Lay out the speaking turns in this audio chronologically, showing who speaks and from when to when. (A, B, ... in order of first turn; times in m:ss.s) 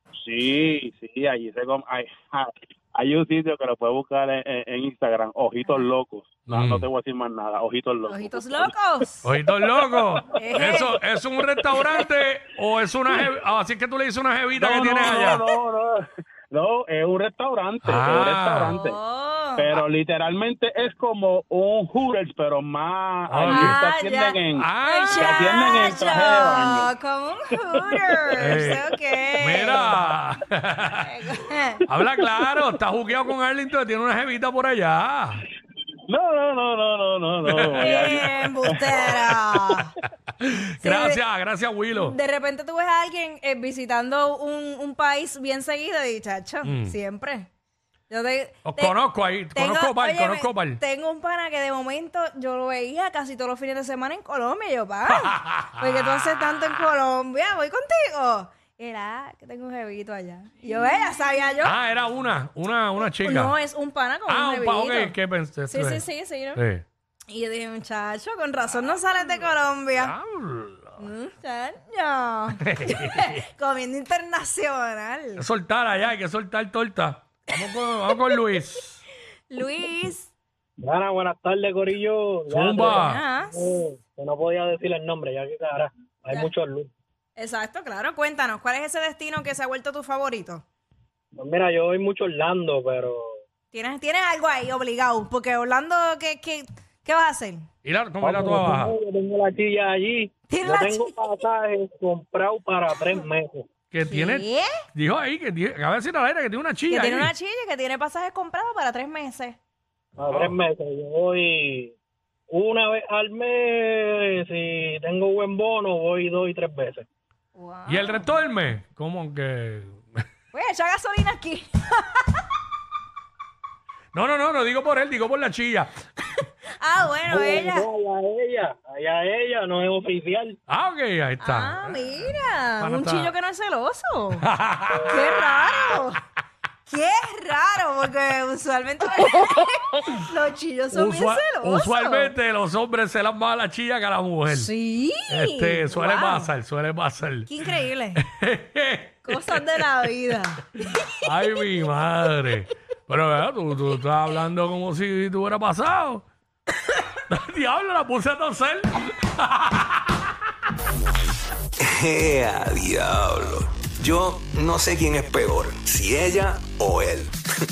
0:00.2-0:08.7 A
0:06.5-0:06.9 B
0:08.1-0:09.3 C
0:09.2-0:15.5 B
0:10.4-0:11.0 C
0:10.6-0:10.9 A
0:11.7-0:12.1 A
0:14.6-0:19.0 A
0:17.8-0:18.8 B
0:18.7-0:19.8 C
0:19.6-0:26.9 A
0:23.3-0:23.8 B
0:23.5-0:30.0 C
0:24.6-0:25.4 B
0:27.9-0:28.8 A
0:28.4-0:31.1 B
0:30.9-0:31.8 C
0:31.9-0:35.5 B
0:36.1-0:39.1 A
0:37.5-0:39.7 B
0:37.8-0:39.9 C
0:40.4-0:42.2 B
0:40.8-0:41.2 C
0:41.9-0:47.5 C
0:46.6-0:47.0 B
0:48.1-0:49.0 C
0:48.6-0:50.8 B
0:49.5-1:01.8 C
0:55.1-0:56.8 B
1:01.6-1:03.6 B
1:03.1-1:05.2 C
1:04.3-1:06.0 B
1:05.7-1:06.6 C
1:06.6-1:06.8 B
1:07.3-1:10.2 C
1:09.2-1:11.0 B
1:11.0-1:15.5 C
1:12.6-1:13.4 B
1:15.4-1:19.0 B
1:17.7-1:18.5 C
1:19.5-1:20.3 C
1:20.8-1:26.9 D
1:22.5-1:23.2 B
1:23.0-1:23.6 C
1:27.4-1:30.6 C
1:31.4-1:33.4 D
1:33.7-1:37.7 C
1:37.8-1:38.9 B
1:38.2-1:43.7 D
1:40.5-1:41.4 C
1:42.9-1:43.2 C
1:43.9-1:47.3 B
1:44.1-1:44.8 C
1:46.9-1:49.6 C
1:50.2-1:51.9 D
1:50.3-1:50.6 B
1:52.5-1:57.1 D
1:57.6-1:58.3 C
1:57.9-2:00.2 B
2:00.5-2:02.4 C
2:04.1-2:06.0 B
2:06.8-2:07.9 C
2:07.3-2:10.6 D
2:10.7-2:12.0 B
2:11.4-2:14.5 C
2:12.8-2:13.3 B
2:14.4-2:15.5 B
2:15.1-2:16.2 C
2:16.9-2:22.3 C
2:20.9-2:24.7 B
2:24.5-2:26.5 C
2:25.3-2:29.8 B
2:27.5-2:28.2 C
2:29.2-2:31.3 C
2:31.2-2:36.3 B
2:37.3-2:40.2 B
2:41.8-2:47.4 E